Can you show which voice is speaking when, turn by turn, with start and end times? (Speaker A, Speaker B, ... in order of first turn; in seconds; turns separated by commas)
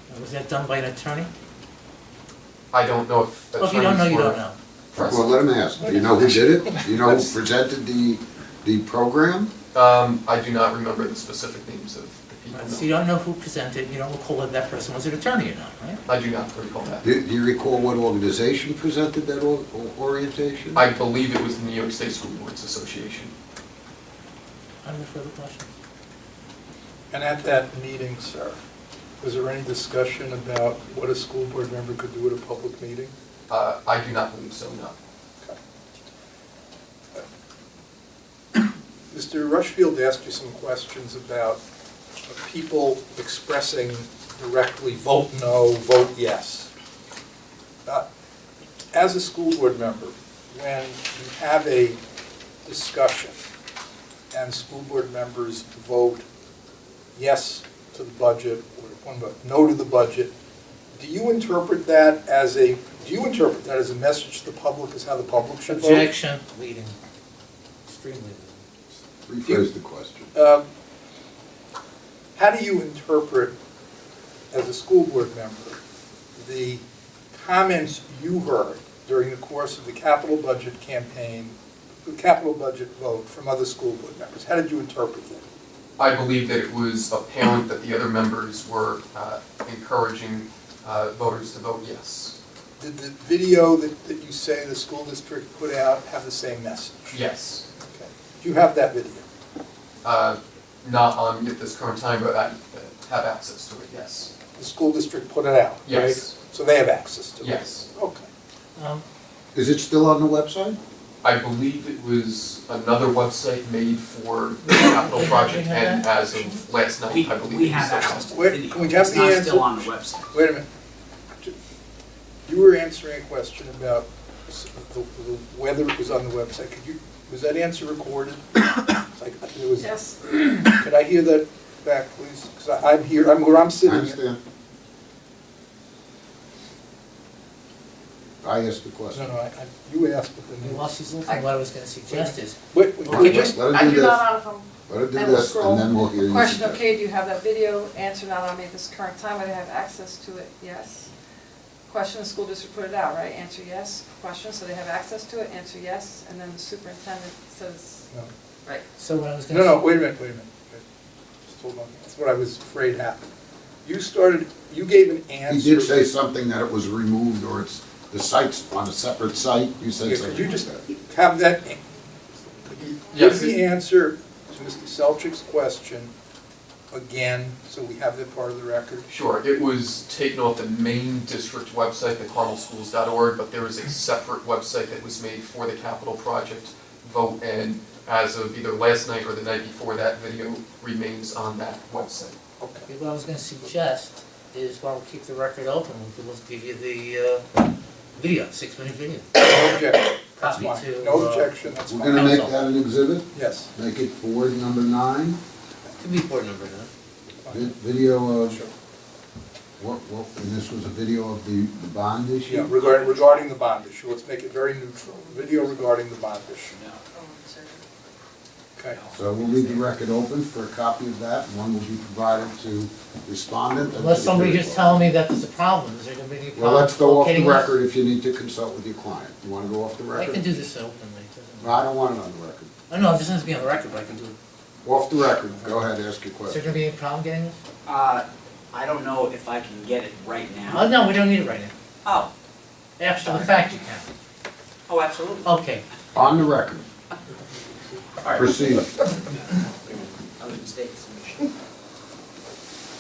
Speaker A: 0.1-1.3, Speaker B: 2.7-4.4, Speaker A: 3.6-4.6, Speaker B: 4.9-5.4, Speaker C: 5.0-9.5, Speaker A: 5.8-6.1, Speaker B: 9.7-12.9, Speaker A: 12.5-16.0, Speaker B: 16.1-17.0, Speaker C: 17.0-20.9, Speaker B: 20.7-23.3, Speaker A: 24.8-25.7, Speaker D: 27.1-28.6, Speaker D: 29.2-33.1, Speaker B: 33.5-35.0, Speaker D: 39.1-41.6, Speaker D: 42.3-46.7, Speaker D: 48.9-52.0, Speaker D: 52.6-53.4, Speaker D: 54.3-56.2, Speaker D: 57.1-60.3, Speaker D: 61.0-66.1, Speaker A: 65.7-67.0, Speaker A: 67.9-68.7, Speaker C: 69.3-70.3, Speaker D: 70.3-70.6, Speaker D: 72.4-73.5, Speaker D: 74.5-75.8, Speaker D: 76.4-85.4, Speaker B: 86.0-92.4, Speaker D: 92.8-97.2, Speaker B: 97.1-97.7, Speaker D: 97.8-99.2, Speaker B: 100.0-104.3, Speaker D: 104.6-108.3, Speaker B: 105.8-106.3, Speaker B: 107.4-107.9, Speaker A: 108.8-109.0, Speaker C: 109.5-110.8, Speaker B: 111.2-118.0, Speaker A: 114.6-116.6, Speaker E: 117.1-120.3, Speaker D: 117.9-120.7, Speaker D: 122.5-130.0, Speaker F: 129.8-130.4, Speaker D: 130.7-134.2, Speaker C: 133.8-134.4, Speaker C: 138.4-139.3, Speaker D: 139.1-140.9, Speaker A: 140.6-143.6, Speaker D: 142.1-143.6, Speaker C: 143.1-144.3, Speaker F: 143.6-151.1, Speaker C: 144.9-146.8, Speaker F: 151.9-158.0, Speaker A: 159.0-159.8, Speaker D: 159.5-160.8, Speaker D: 161.5-163.3, Speaker D: 163.8-166.0, Speaker C: 165.5-170.8, Speaker D: 170.0-171.9, Speaker D: 172.7-176.1, Speaker B: 173.1-173.6, Speaker D: 176.9-179.1, Speaker B: 179.1-192.4, Speaker D: 192.6-192.9, Speaker A: 192.9-199.8, Speaker D: 199.4-202.4, Speaker A: 200.4-201.6, Speaker C: 201.9-205.4, Speaker A: 202.1-202.6, Speaker D: 203.3-203.7, Speaker A: 206.0-206.9, Speaker D: 207.4-207.8, Speaker C: 207.5-208.6, Speaker D: 208.4-208.7, Speaker C: 209.8-212.7, Speaker D: 212.5-216.7, Speaker E: 213.1-213.4, Speaker F: 214.9-215.8, Speaker E: 216.7-217.0, Speaker F: 217.1-217.8, Speaker E: 218.9-219.9, Speaker C: 219.1-225.1, Speaker A: 223.9-227.7, Speaker C: 226.5-230.4, Speaker A: 230.1-231.9, Speaker C: 231.6-232.7, Speaker A: 232.9-234.4, Speaker C: 234.8-236.8, Speaker A: 236.5-237.6, Speaker E: 237.9-240.9, Speaker A: 240.7-241.7, Speaker E: 242.1-242.3, Speaker A: 243.0-244.1, Speaker E: 244.9-245.5, Speaker A: 245.4-245.8, Speaker C: 246.1-246.9, Speaker E: 248.2-251.5, Speaker C: 248.3-248.9